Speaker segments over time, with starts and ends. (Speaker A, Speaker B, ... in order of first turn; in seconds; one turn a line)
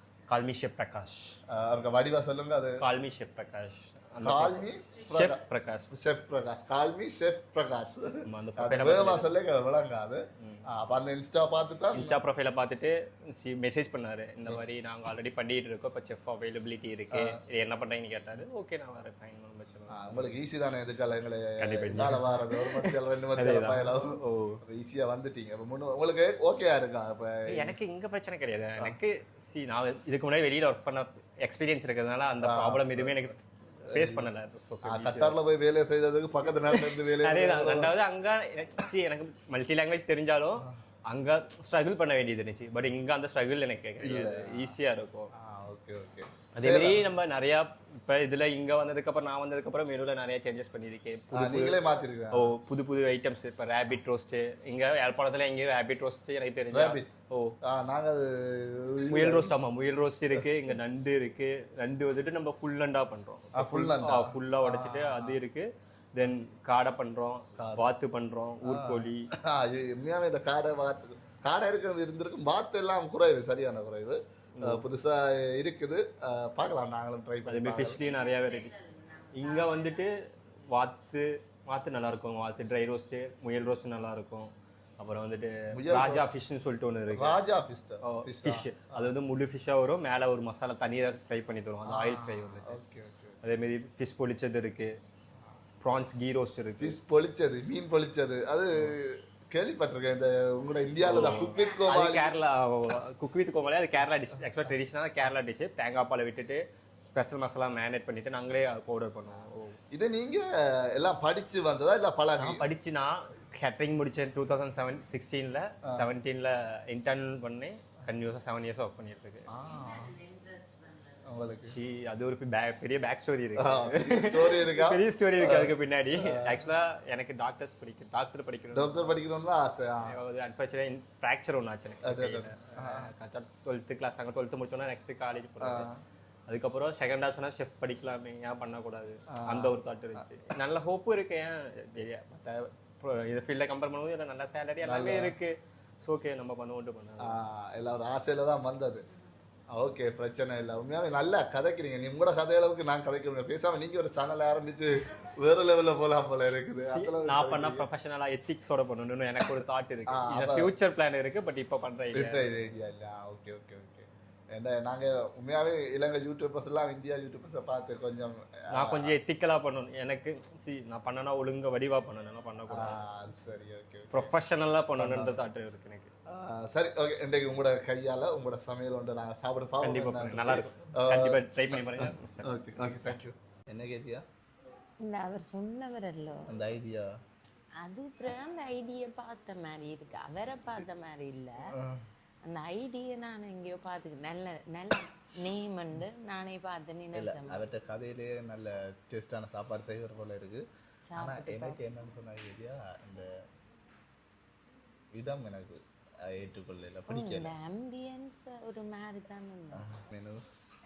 Speaker A: 0.3-1.4
Speaker B: 1.5-2.8
Speaker A: 2.8-5.9
Speaker B: 4.2-12.2
Speaker A: 8.3-9.3
Speaker A: 10.4-10.7
Speaker A: 11.9-20.3
Speaker B: 17.1-17.4
Speaker B: 19.9-27.8
Speaker A: 21.6-24.6
Speaker A: 27.5-35.4
Speaker B: 32.4-33.3
Speaker B: 33.8-34.3
Speaker B: 34.8-38.0
Speaker A: 36.7-45.3
Speaker B: 44.0-44.8
Speaker B: 45.3-47.1
Speaker A: 46.6-57.6
Speaker B: 51.3-52.6
Speaker B: 56.7-59.5
Speaker A: 59.1-69.3
Speaker B: 63.5-65.4
Speaker B: 67.6-68.0
Speaker B: 68.6-78.0
Speaker A: 74.6-74.8
Speaker A: 77.5-78.8
Speaker C: 77.8-80.1
Speaker A: 79.3-87.4
Speaker B: 85.7-86.3
Speaker B: 87.1-89.1
Speaker A: 88.0-92.8
Speaker B: 91.9-93.4
Speaker A: 93.4-95.0
Speaker A: 95.8-97.0
Speaker B: 96.8-102.3
Speaker A: 101.0-109.8
Speaker B: 109.3-112.7
Speaker A: 112.4-119.5
Speaker B: 115.8-116.1
Speaker B: 119.5-120.2
Speaker C: 119.7-121.3
Speaker B: 121.2-121.8
Speaker A: 121.7-129.2
Speaker B: 123.5-126.7
Speaker B: 128.7-130.2
Speaker A: 130.1-135.9
Speaker B: 132.0-133.1
Speaker B: 135.6-136.0
Speaker A: 136.5-147.4
Speaker B: 139.3-140.3
Speaker B: 144.8-145.4
Speaker B: 147.2-149.0
Speaker B: 149.7-157.9
Speaker A: 156.9-162.5
Speaker B: 160.1-160.7
Speaker B: 162.1-169.2
Speaker A: 168.7-173.0
Speaker B: 172.7-174.3
Speaker A: 174.1-176.1
Speaker B: 175.0-175.4
Speaker B: 176.3-184.2
Speaker A: 179.8-183.2
Speaker C: 185.0-186.5
Speaker B: 186.5-187.1
Speaker C: 187.8-191.7
Speaker B: 191.7-192.1
Speaker C: 192.4-197.6
Speaker B: 197.1-203.3
Speaker C: 201.1-201.8
Speaker B: 205.1-207.6
Speaker C: 207.1-209.9
Speaker B: 209.7-210.4